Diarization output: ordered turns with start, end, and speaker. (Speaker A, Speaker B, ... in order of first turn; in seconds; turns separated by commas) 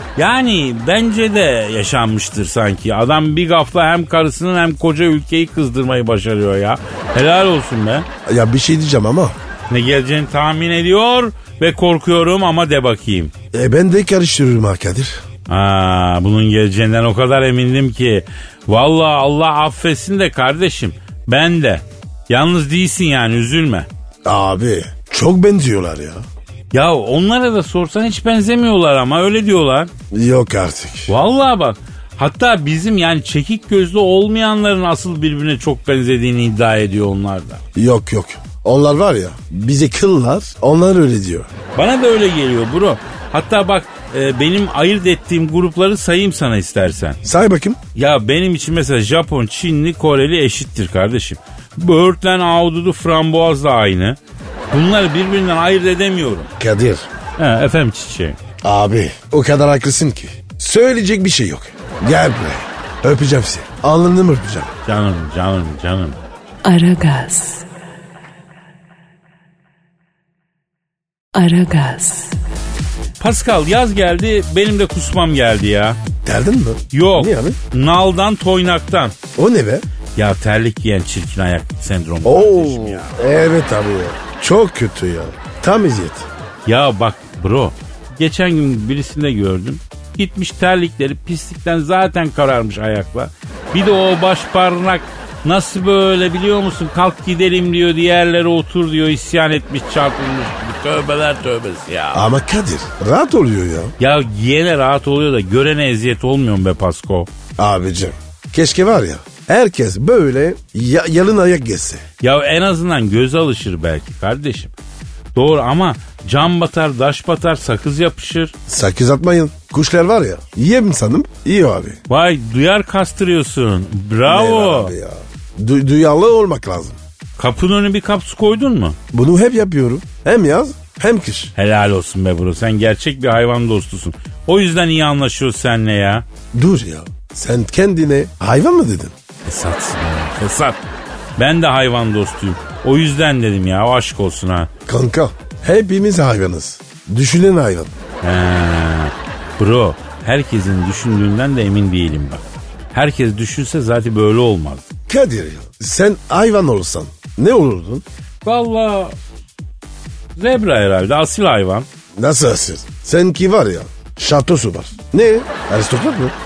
Speaker A: 0.1-8.1, Speaker B: 8.2-9.3, Speaker A: 9.7-13.3, Speaker B: 13.5-15.2, Speaker A: 15.5-23.9, Speaker B: 24.2-26.2, Speaker A: 26.7-29.9, Speaker B: 30.1-31.1, Speaker A: 31.1-37.6, Speaker B: 37.7-41.5, Speaker A: 41.8-47.2, Speaker B: 47.2-47.8, Speaker A: 47.9-54.2, Speaker A: 54.7-56.5, Speaker B: 56.6-57.1, Speaker A: 57.4-58.4, Speaker B: 58.6-64.7, Speaker A: 64.8-66.2, Speaker C: 66.6-67.6, Speaker C: 71.3-72.4, Speaker A: 73.2-76.0, Speaker B: 76.2-77.6, Speaker A: 76.9-79.1, Speaker B: 79.3-79.8, Speaker A: 80.2-83.2, Speaker B: 82.2-86.3, Speaker A: 86.7-102.3, Speaker B: 102.1-103.9, Speaker A: 104.0-107.3, Speaker B: 107.6-112.0, Speaker A: 112.2-114.7, Speaker A: 115.3-118.5, Speaker B: 118.7-122.0, Speaker A: 122.1-124.9, Speaker B: 124.2-127.0, Speaker A: 127.4-129.0, Speaker B: 129.1-131.5, Speaker A: 131.6-136.2, Speaker B: 136.5-139.1, Speaker A: 139.4-140.8, Speaker A: 141.4-144.7, Speaker B: 144.9-147.9, Speaker A: 148.2-154.9, Speaker B: 155.1-158.0, Speaker A: 158.4-159.2, Speaker A: 160.4-161.9, Speaker B: 162.1-166.3